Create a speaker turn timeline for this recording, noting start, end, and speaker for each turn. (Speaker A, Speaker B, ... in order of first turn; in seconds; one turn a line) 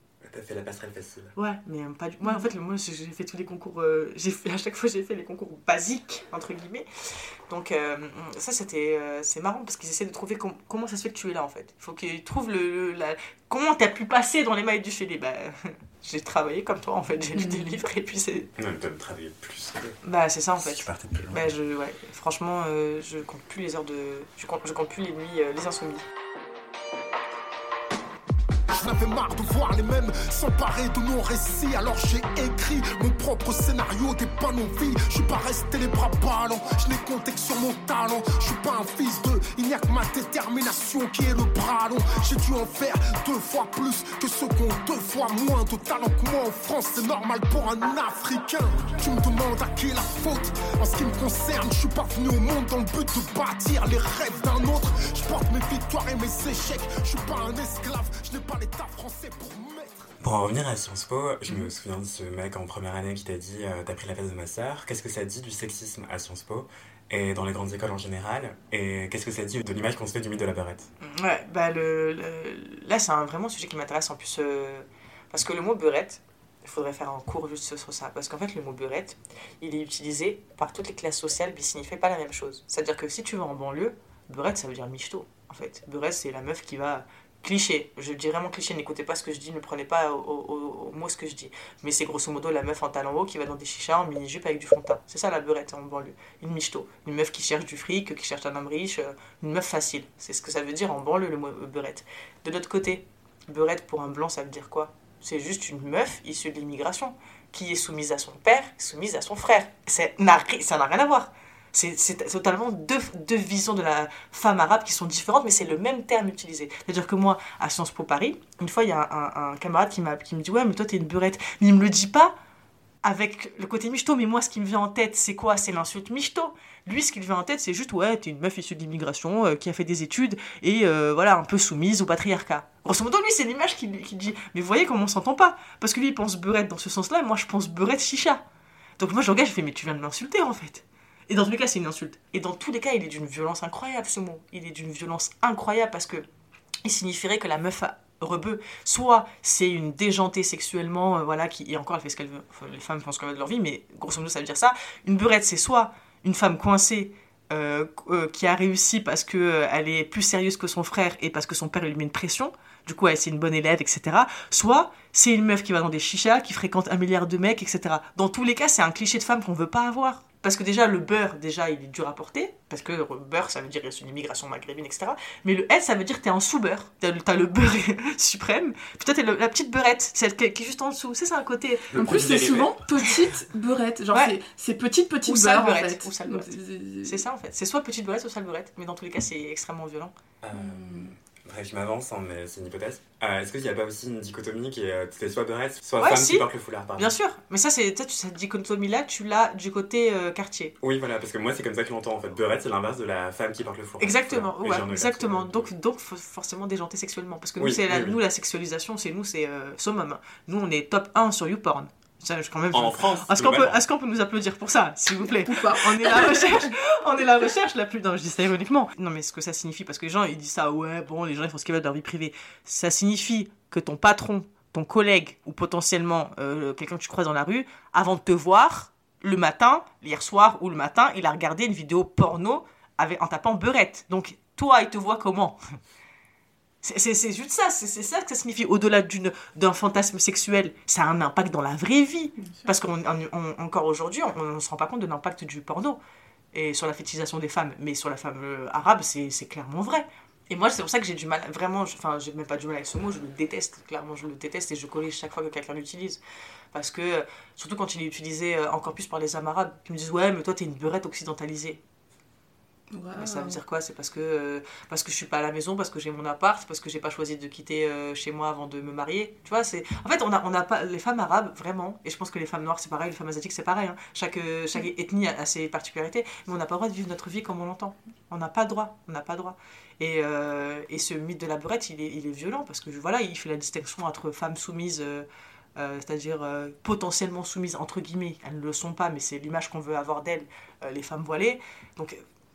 Speaker A: 0.2-1.3
Speaker B: 1.4-6.9
Speaker B: 7.5-18.5
Speaker A: 18.6-20.0
Speaker B: 20.0-26.1
Speaker A: 20.6-21.5
Speaker C: 28.7-60.0
Speaker A: 60.2-70.9
Speaker B: 71.0-122.3
Speaker B: 123.0-138.4
Speaker B: 139.0-146.2
Speaker B: 146.8-182.0
Speaker A: 181.9-182.8
Speaker D: 182.0-187.2
Speaker B: 184.1-184.4
Speaker B: 185.3-190.1
Speaker A: 190.4-197.2
Speaker D: 190.5-191.1
Speaker B: 196.0-200.8
Speaker A: 200.8-205.7
Speaker B: 204.0-235.6
Speaker A: 207.6-208.2
Speaker A: 212.7-213.8
Speaker D: 215.4-216.7
Speaker B: 236.8-246.0
Speaker D: 242.4-242.7
Speaker B: 246.5-256.2
Speaker B: 256.7-261.8
Speaker D: 262.9-263.6
Speaker B: 263.1-292.2